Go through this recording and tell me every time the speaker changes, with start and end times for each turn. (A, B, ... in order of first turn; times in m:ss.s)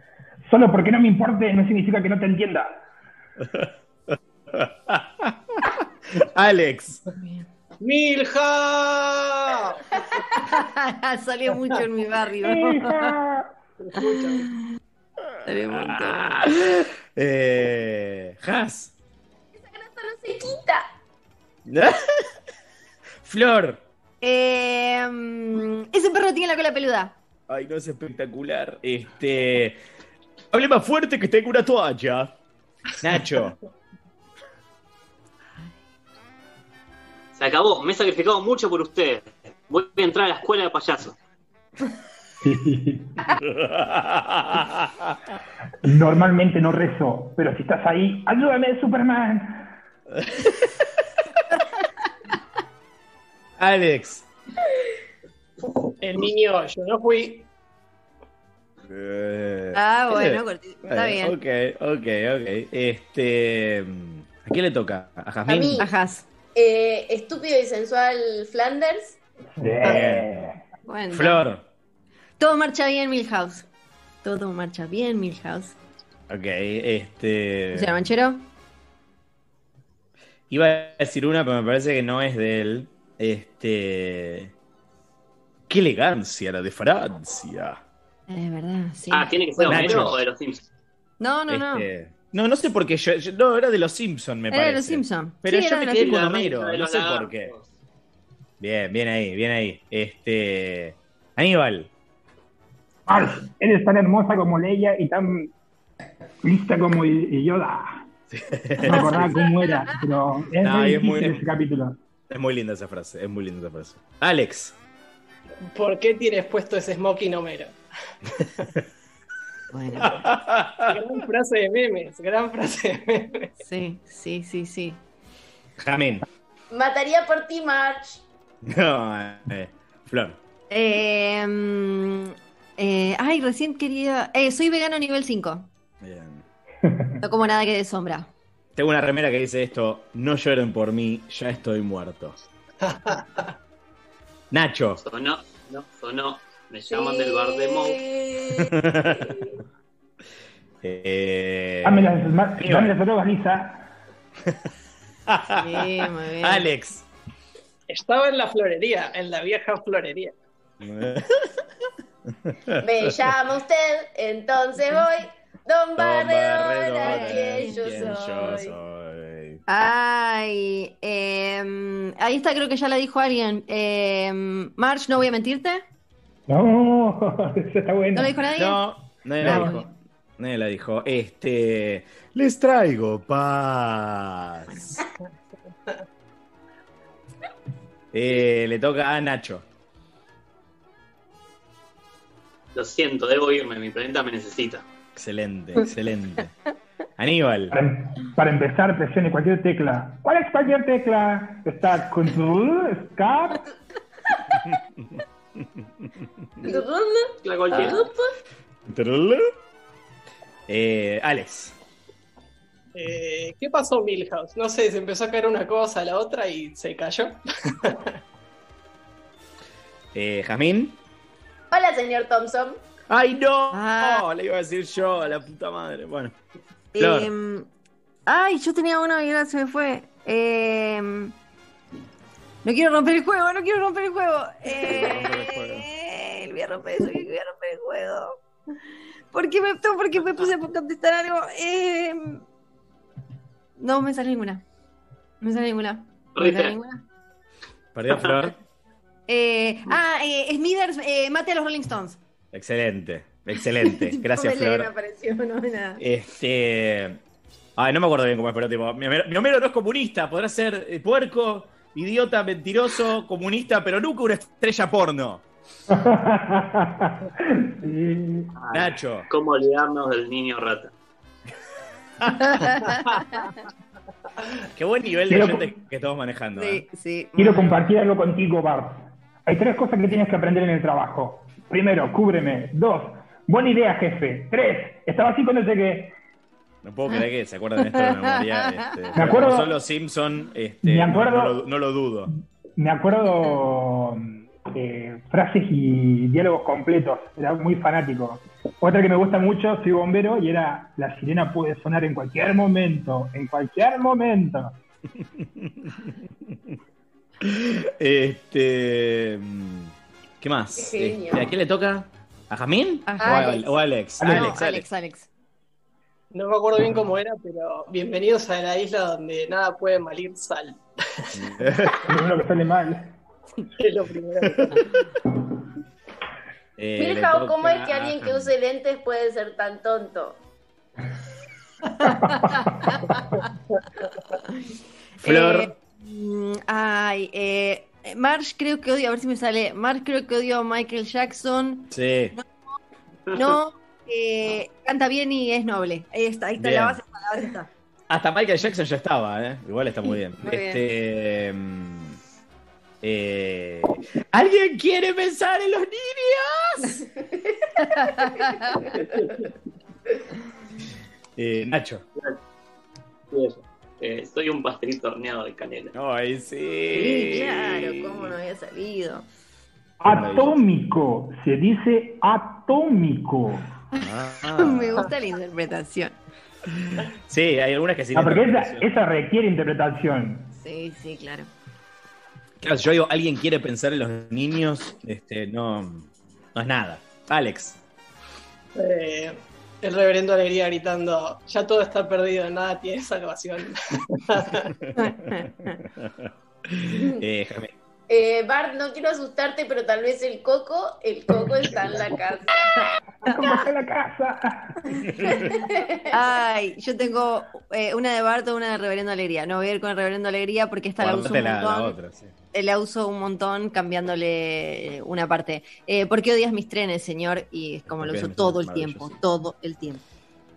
0:00.5-0:02.8 A
0:03.4-0:03.7 B
0:04.5-0:07.0 B
0:07.2-0:07.4 C
0:07.8-0:09.8 D
0:10.2-0:13.1 C
0:12.4-0:13.5 A
0:13.8-0:14.5 D
0:14.0-0:14.6 C
0:15.3-0:18.9 B
0:15.4-0:16.7 C
0:19.6-0:20.8 E
0:21.6-0:22.3 B
0:23.2-0:23.8 B
0:24.2-0:27.2 C
0:27.5-0:29.8 B
0:30.5-0:32.3 B
0:33.0-0:33.6 B
0:37.4-0:41.2 F
0:42.4-0:43.2 A
0:43.4-0:45.2 B
0:45.8-0:49.7 A
0:50.1-0:51.0 B
0:53.6-0:54.2 B
0:56.0-0:57.5 D
0:58.9-1:05.9 B
0:59.7-1:01.4 C
1:05.4-1:05.8 E
1:05.8-1:06.2 C
1:06.5-1:09.2 E
1:09.6-1:10.6 A
1:09.8-1:10.3 B
1:10.8-1:11.4 C
1:11.1-1:11.6 B
1:12.4-1:13.7 C
1:14.2-1:15.8 C
1:16.3-1:18.0 B
1:17.7-1:18.4 C
1:20.5-1:24.5 B
1:25.7-1:27.8 B
1:28.3-1:30.1 C
1:29.1-1:30.7 F
1:29.6-1:30.2 B
1:31.2-1:31.9 C
1:31.5-1:37.5 B
1:34.5-1:36.3 C
1:36.0-1:37.6 F
1:38.6-1:41.9 B
1:43.1-1:45.5 A
1:46.4-1:48.1 A
1:48.3-1:49.3 B
1:48.8-1:52.0 A
1:50.6-1:51.4 B
1:52.3-1:54.8 B
1:55.6-1:57.8 D
1:59.7-2:00.2 C
2:00.0-2:01.0 B
2:00.9-2:03.5 D
2:03.6-2:05.0 C
2:05.8-2:06.2 B
2:06.7-2:08.2 E
2:08.6-2:10.4 B
2:10.7-2:15.7 C
2:16.0-2:16.4 B
2:17.2-2:18.3 C
2:18.8-2:22.4 B
2:22.8-2:23.5 D
2:24.5-2:25.0 B
2:25.0-2:28.0 F
2:26.8-2:29.5 E
2:28.6-2:29.2 B
2:30.8-2:32.9 B
2:31.8-2:33.9 A
2:35.3-2:37.0 B
2:35.5-2:36.7 C
2:37.9-2:40.3 D
2:40.8-2:41.6 B
2:42.3-2:42.8 B
2:42.8-2:48.8 E
2:46.0-2:49.6 B
2:47.0-2:47.8 C
2:49.7-2:55.8 C
2:56.5-2:58.3 A
2:58.1-2:58.8 C
2:58.5-3:05.0 B
2:59.4-2:59.7 A
2:59.4-2:59.9 C
3:08.1-3:09.6 B
3:12.7-3:14.9 F
3:15.2-3:16.6 B
3:17.2-3:17.7 B
3:17.7-3:23.6 A
3:26.6-3:28.3 E
3:27.4-3:28.1 F
3:28.8-3:29.5 B
3:30.7-3:31.7 B
3:32.9-3:38.2 D
3:40.1-3:41.0 B
3:41.7-3:42.8 E
3:43.1-3:46.3 B
3:43.7-3:44.2 C
3:46.9-3:47.7 C
3:47.0-3:47.3 B
3:48.3-3:51.3 C
3:52.6-3:58.4 C
3:54.8-3:55.9 B
3:59.3-4:02.4 C
4:03.8-4:04.6 C
4:05.4-4:07.0 C
4:06.4-4:06.7 F
4:07.9-4:08.6 B
4:09.3-4:12.2 C
4:12.5-4:14.9 B
4:13.8-4:16.0 C
4:16.0-4:17.2 B
4:17.8-4:25.4 B
4:25.9-4:28.5 A
4:28.6-4:30.9 F
4:28.7-4:29.3 B
4:32.2-4:32.8 B
4:32.4-4:33.5 C
4:34.8-4:36.8 B
4:35.3-4:35.7 A
4:36.5-4:37.7 C
4:37.4-4:46.1 A
4:46.8-4:52.3 B
4:47.8-4:48.8 C
4:49.1-4:49.7 A
4:50.8-4:51.6 A
4:52.3-5:04.8 A
5:05.4-5:06.2 B
5:07.4-5:14.8 B
5:10.7-5:11.5 E
5:13.1-5:13.6 C
5:13.2-5:13.7 E
5:14.2-5:14.6 A
5:14.2-5:15.3 C
5:16.3-5:21.4 D
5:21.3-5:22.0 B
5:22.0-5:23.2 A
5:23.8-5:24.8 D
5:26.8-5:28.5 B
5:27.0-5:30.4 E
5:32.0-5:33.2 C
5:32.0-5:32.5 A
5:35.2-5:35.7 B
5:35.2-5:42.4 C
5:41.9-5:42.3 B
5:43.3-5:47.7 C
5:46.6-5:47.0 B
5:48.1-5:52.2 B
5:50.1-5:50.8 C
5:53.0-5:57.0 B
5:57.8-5:58.9 C
6:01.4-6:02.0 B
6:03.3-6:05.9 F
6:05.9-6:08.3 B
6:06.9-6:09.3 C
6:10.0-6:13.7 A
6:10.0-6:10.6 B
6:14.0-6:16.2 C
6:14.0-6:15.1 B
6:16.7-6:18.9 B
6:18.1-6:20.5 A
6:20.5-6:21.5 C
6:22.6-6:27.8 B
6:28.8-6:34.7 D
6:34.8-6:35.4 B
6:34.9-6:35.8 C
6:36.0-6:37.7 B
6:38.1-6:42.7 E
6:43.2-6:45.5 A
6:45.5-6:46.2 E
6:46.1-6:52.0 C
6:51.0-6:52.3 B
6:52.5-7:00.0 C
6:57.9-6:59.1 B